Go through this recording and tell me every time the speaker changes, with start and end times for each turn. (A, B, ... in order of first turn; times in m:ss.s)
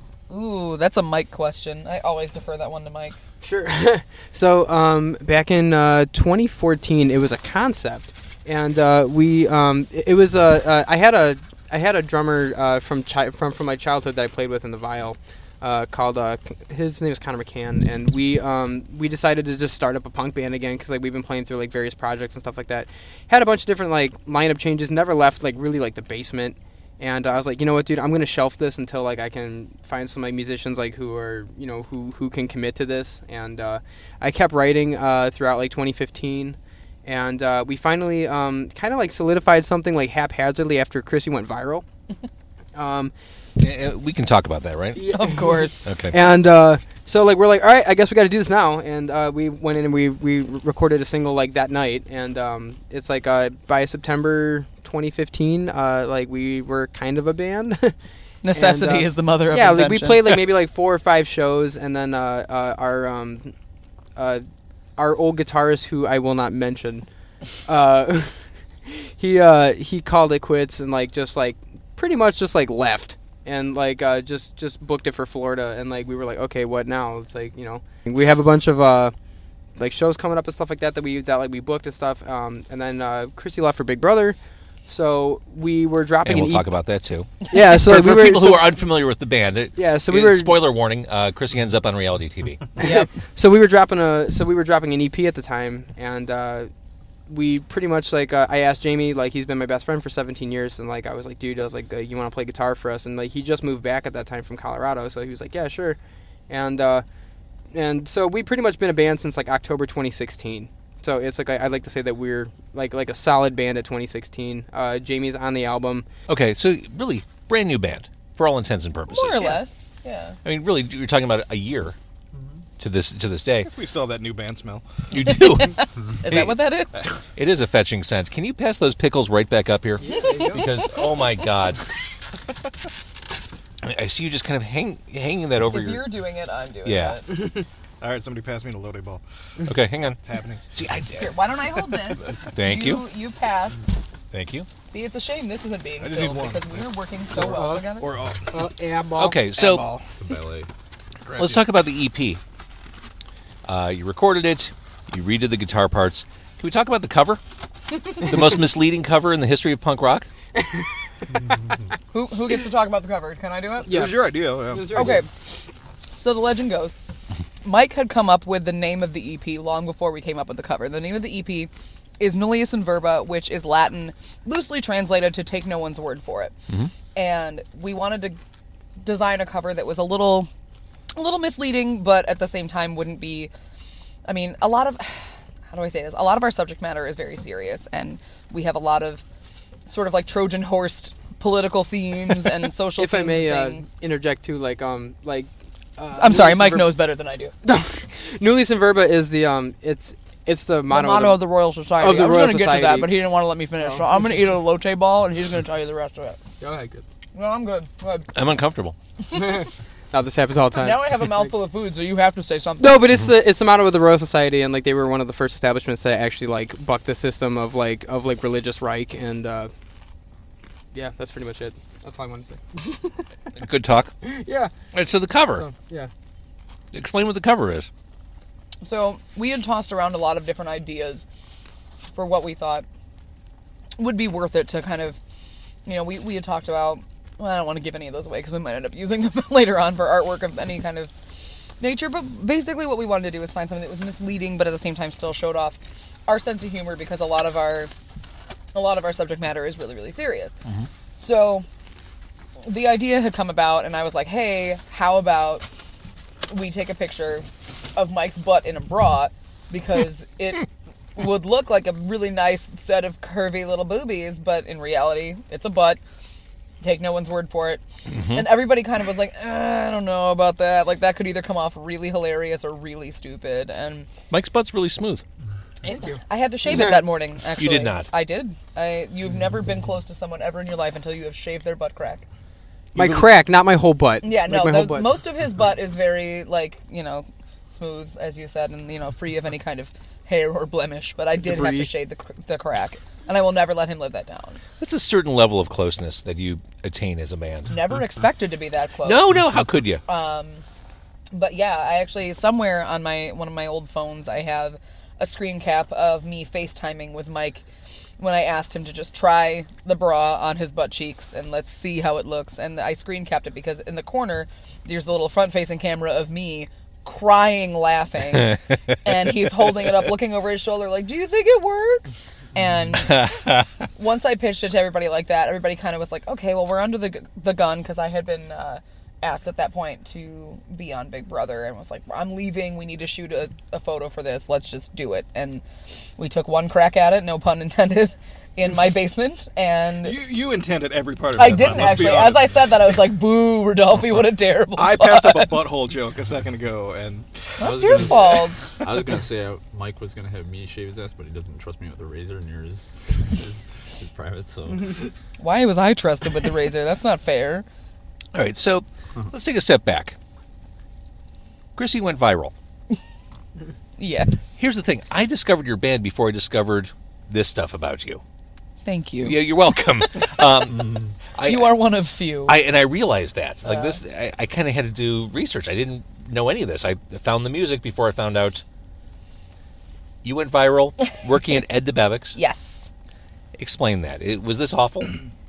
0:00.3-0:03.2 A
0:03.4-0:41.8 B
0:42.8-0:43.1 B
0:43.6-0:45.0 C
0:45.0-0:57.9 B
0:45.1-0:45.9 A
0:45.8-0:46.2 C
0:58.4-1:00.2 A
0:58.5-1:03.5 B
1:04.2-1:04.4 B
1:05.0-1:07.1 B
1:07.6-1:19.1 B
1:19.8-1:26.8 B
1:26.2-1:32.6 C
1:27.5-1:28.8 B
1:29.8-1:30.7 B
1:32.8-1:33.1 A
1:32.8-1:36.7 B
1:37.3-1:46.0 B
1:46.5-1:47.0 B
1:47.7-1:56.1 B
1:56.3-1:59.6 C
1:59.1-2:00.4 A
2:00.4-2:02.0 C
2:02.8-2:03.7 C
2:03.6-2:04.9 D
2:05.1-2:06.6 C
2:05.4-2:07.0 A
2:07.4-2:11.8 C
2:10.0-2:10.7 B
2:10.1-2:10.5 A
2:13.8-2:16.1 C
2:15.7-2:17.3 A
2:16.8-2:17.2 C
2:18.0-2:19.2 D
2:19.6-2:20.2 C
2:20.2-2:20.6 D
2:20.7-2:21.3 C
2:21.2-2:24.0 A
2:22.4-2:23.0 C
2:24.3-2:24.7 C
2:24.9-2:28.1 A
2:26.0-2:28.6 D
2:27.3-2:27.9 B
2:28.5-2:29.4 B
2:29.2-2:29.9 C
2:29.6-2:30.1 D
2:30.1-2:30.7 E
2:31.2-2:31.7 D
2:31.4-2:32.4 C
2:33.6-2:37.4 C
2:38.2-2:40.3 C
2:40.6-2:40.8 B
2:42.1-2:44.0 A
2:43.9-2:45.2 B
2:43.9-2:45.2 D
2:44.9-2:45.3 A
2:46.2-2:47.0 A
2:47.6-2:56.5 A
2:57.2-2:58.4 A
2:59.0-3:00.5 A
3:01.2-3:03.5 A
3:04.3-3:09.2 A
3:09.9-3:13.9 A
3:13.0-3:17.0 B
3:16.1-3:17.5 A
3:17.6-3:21.4 B
3:20.9-3:26.4 A
3:22.0-3:23.2 B
3:23.8-3:24.1 B
3:26.6-3:27.1 B
3:27.3-3:28.3 A
3:28.3-3:29.0 C
3:29.4-3:31.5 B
3:30.7-3:33.0 A
3:32.8-3:39.7 B
3:40.9-3:43.2 B
3:43.6-3:44.1 C
3:44.2-3:44.7 B
3:44.9-3:45.7 C
3:45.5-3:46.1 B
3:46.9-3:47.9 C
3:48.8-3:51.3 A
3:52.1-3:52.9 A
3:54.0-3:55.2 A
3:55.8-4:01.1 A
4:01.8-4:07.9 A
4:08.7-4:10.6 A
4:11.2-4:11.7 A
4:12.6-4:15.7 A
4:16.5-4:26.0 A
4:26.8-4:34.1 A
4:28.1-4:28.6 C
4:34.3-4:35.2 C
4:35.8-4:37.1 B
4:35.8-4:42.2 A
4:37.6-4:38.1 C
4:43.0-4:43.3 C
4:43.0-4:45.1 B
4:44.2-4:54.6 A
4:51.4-4:51.9 B
4:54.8-4:57.8 C
4:57.7-4:59.4 A
4:59.0-5:00.0 C
5:00.1-5:00.6 A
5:01.3-5:07.6 A
5:08.2-5:23.4 A
5:23.1-5:23.7 C
5:24.0-5:35.6 A
5:36.2-5:40.2 A
5:40.0-5:42.6 D
5:41.3-5:45.6 A
5:41.4-5:42.6 E
5:44.8-5:47.7 D
5:47.6-5:48.9 A
5:47.6-5:55.1 E
5:55.4-5:57.7 A
5:58.3-6:00.2 C
6:01.8-6:02.5 C
6:04.0-6:04.6 A
6:04.6-6:08.2 C
6:08.8-6:09.6 A
6:09.2-6:12.0 C
6:11.4-6:12.6 A
6:12.5-6:18.6 C
6:13.6-6:14.0 A
6:20.2-6:22.4 C
6:22.4-6:22.9 A
6:23.6-6:25.2 C